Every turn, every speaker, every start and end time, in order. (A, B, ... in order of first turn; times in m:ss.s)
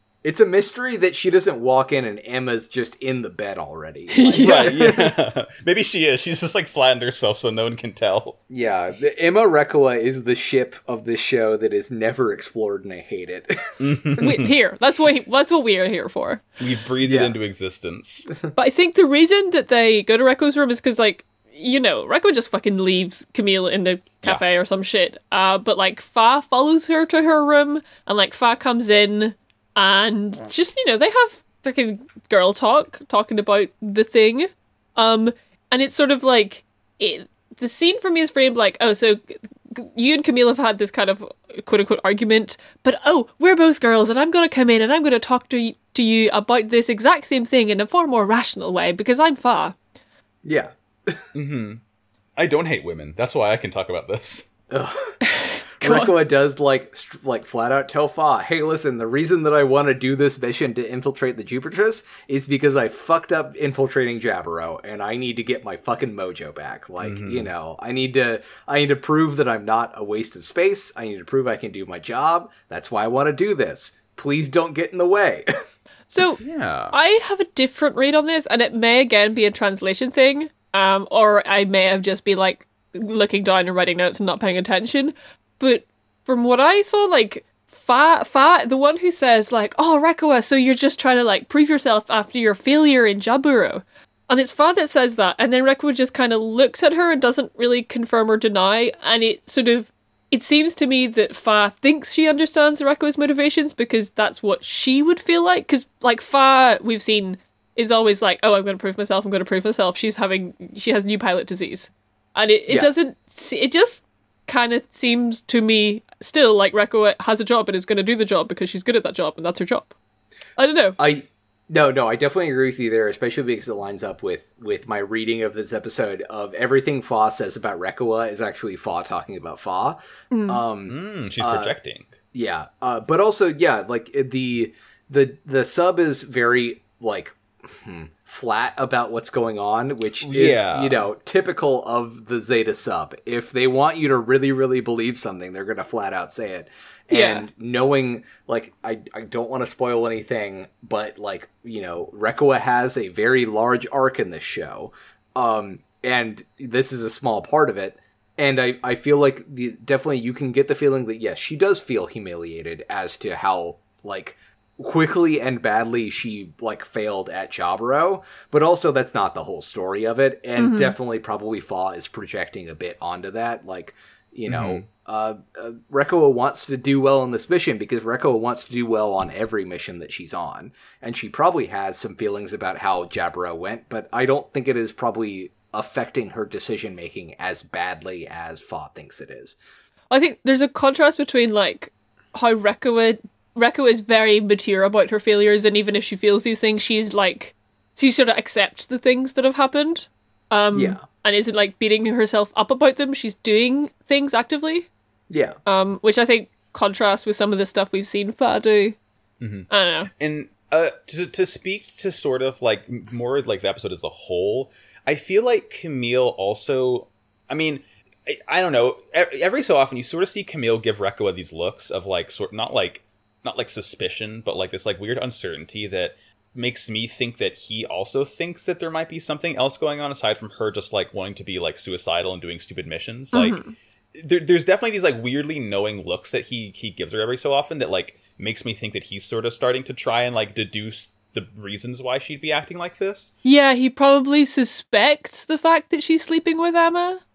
0:00.2-0:05.1 A
0:04.1-0:04.9 B
0:04.4-0:08.4 C
0:08.5-0:13.8 A
0:13.8-0:14.5 C
0:14.2-0:16.5 B
0:16.6-0:18.2 C
0:17.0-0:17.4 A
0:18.6-0:49.8 B
0:50.4-0:51.2 A
0:51.3-0:51.8 C
0:52.4-0:54.5 C
0:54.7-0:55.2 A
0:55.2-0:56.1 B
0:55.8-1:15.5 A
1:07.0-1:07.5 C
1:16.1-1:16.4 B
1:16.4-1:17.0 C
1:16.9-1:59.9 B
2:00.6-2:01.0 B
2:01.0-2:11.7 A
2:10.3-2:10.6 B
2:10.9-2:12.1 C
2:12.3-3:09.6 A
2:20.2-2:21.0 C
2:27.1-2:27.5 B
2:50.6-2:51.0 B
2:54.5-2:54.8 C
3:10.1-3:24.9 B
3:20.7-3:21.0 A
3:25.3-3:25.6 A
3:25.7-3:29.0 B
3:29.4-3:53.6 C
3:29.7-3:30.1 B
3:53.3-3:53.7 B
3:54.1-4:03.3 C
4:03.4-4:07.2 B